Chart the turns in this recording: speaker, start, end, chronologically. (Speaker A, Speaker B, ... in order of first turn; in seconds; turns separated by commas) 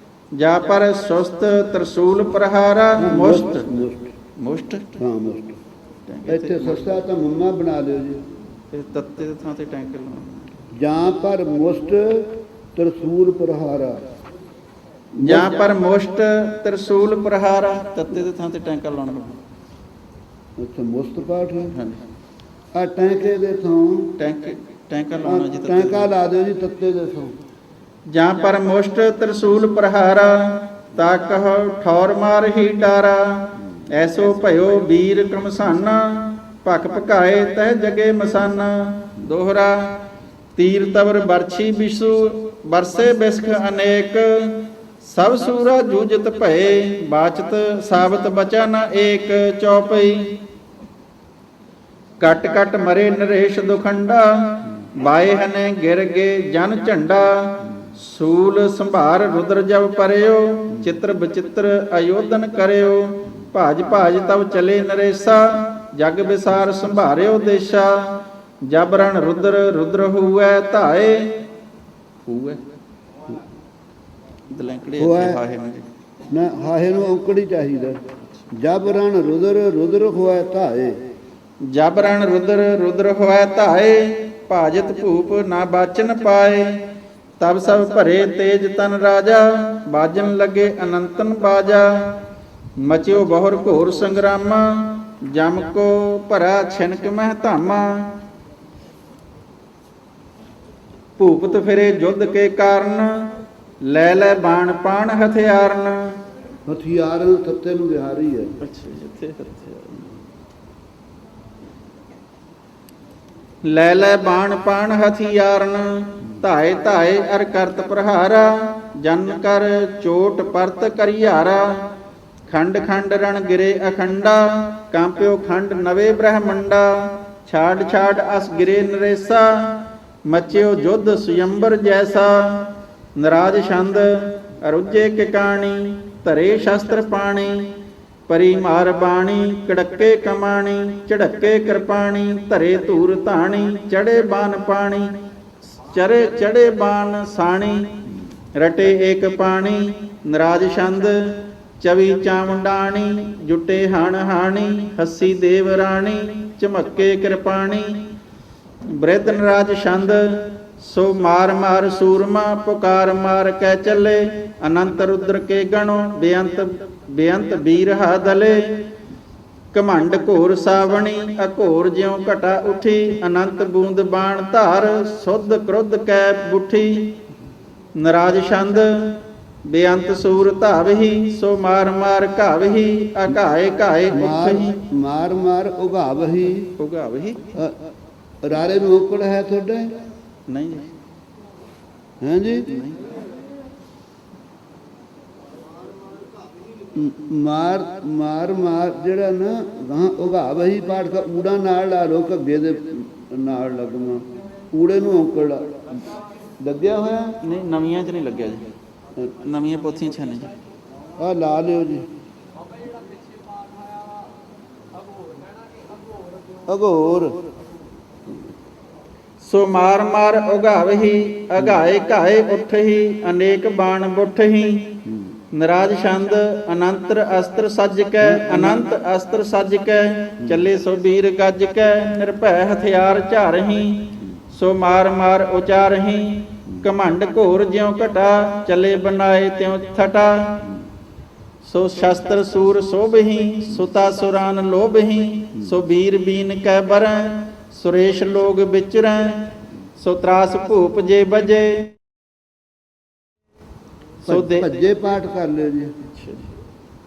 Speaker A: 0.3-3.7, Speaker B: 3.0-4.1, Speaker A: 4.4-5.0, Speaker B: 5.0-5.6, Speaker A: 6.0-6.8, Speaker B: 6.3-8.2, Speaker A: 8.7-10.5, Speaker B: 10.7-14.0, Speaker B: 15.2-15.7, Speaker A: 15.2-19.4, Speaker B: 20.6-21.8, Speaker A: 21.7-22.0, Speaker B: 22.7-24.1, Speaker A: 24.2-26.1, Speaker B: 25.2-27.4, Speaker A: 28.1-50.4, Speaker A: 52.2-71.4, Speaker A: 72.2-72.6, Speaker A: 74.5-75.9, Speaker B: 75.0-75.4, Speaker B: 76.3-78.0, Speaker B: 78.5-81.0, Speaker A: 81.6-92.2, Speaker A: 92.8-98.2, Speaker A: 101.2-106.2, Speaker B: 106.7-108.5, Speaker A: 108.6-110.1, Speaker A: 113.6-121.9, Speaker A: 122.5-137.7, Speaker A: 138.3-145.2, Speaker A: 145.8-158.1, Speaker A: 158.9-168.9, Speaker A: 169.7-177.2, Speaker A: 177.9-184.8, Speaker B: 184.1-186.7, Speaker A: 186.8-187.4, Speaker B: 188.4-189.9, Speaker A: 190.5-190.9, Speaker B: 192.2-192.8, Speaker A: 192.7-193.1, Speaker B: 196.9-205.8, Speaker B: 206.6-207.4, Speaker A: 207.4-208.7, Speaker A: 209.4-210.5, Speaker B: 211.2-212.0, Speaker B: 216.7-217.4, Speaker A: 219.4-240.7, Speaker B: 228.2-228.8, Speaker A: 241.6-251.9, Speaker B: 254.2-255.9, Speaker A: 254.2-254.7, Speaker A: 256.0-256.5